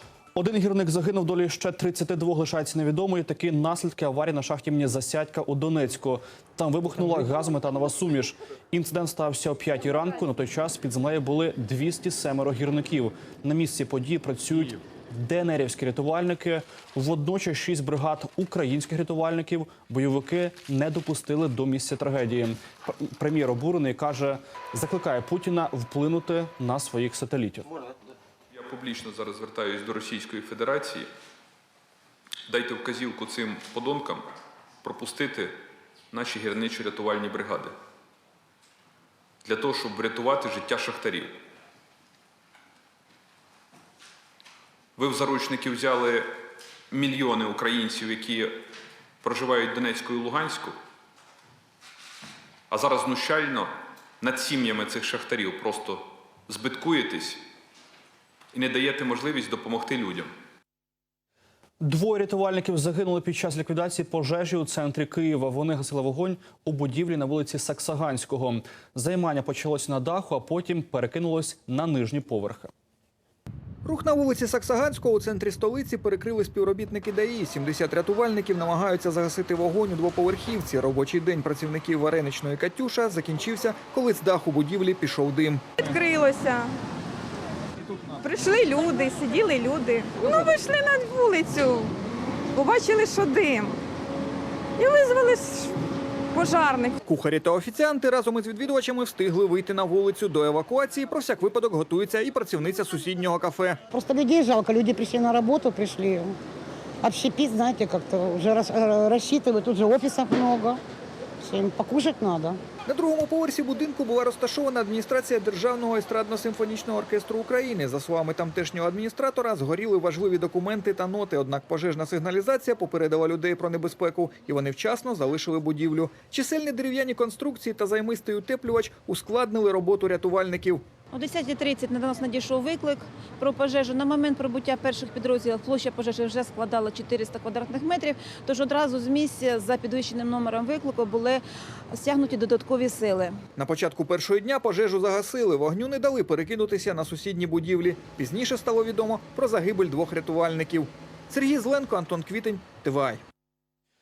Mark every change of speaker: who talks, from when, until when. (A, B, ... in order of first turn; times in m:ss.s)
0:00.3-0:27.7 A
0:28.5-0:31.1 B
0:32.5-0:34.3 B
0:34.8-0:35.6 B
0:36.1-0:37.7 B
0:39.4-0:41.4 B
0:45.0-0:46.3 B
0:46.9-0:48.6 B
0:49.2-0:50.8 B
0:52.7-0:57.4 B
0:58.5-1:00.3 B
1:01.8-1:12.7 A
1:13.8-1:25.8 C
1:25.8-1:26.7 D
1:28.2-1:31.9 D
1:32.5-1:33.8 D
1:34.8-1:35.7 D
1:36.3-1:37.0 D
1:37.0-1:43.8 C
1:43.9-1:46.2 E
1:47.1-1:50.6 E
1:51.6-1:52.4 E
1:52.9-2:10.8 C
2:11.1-2:23.4 F
2:23.6-2:33.2 C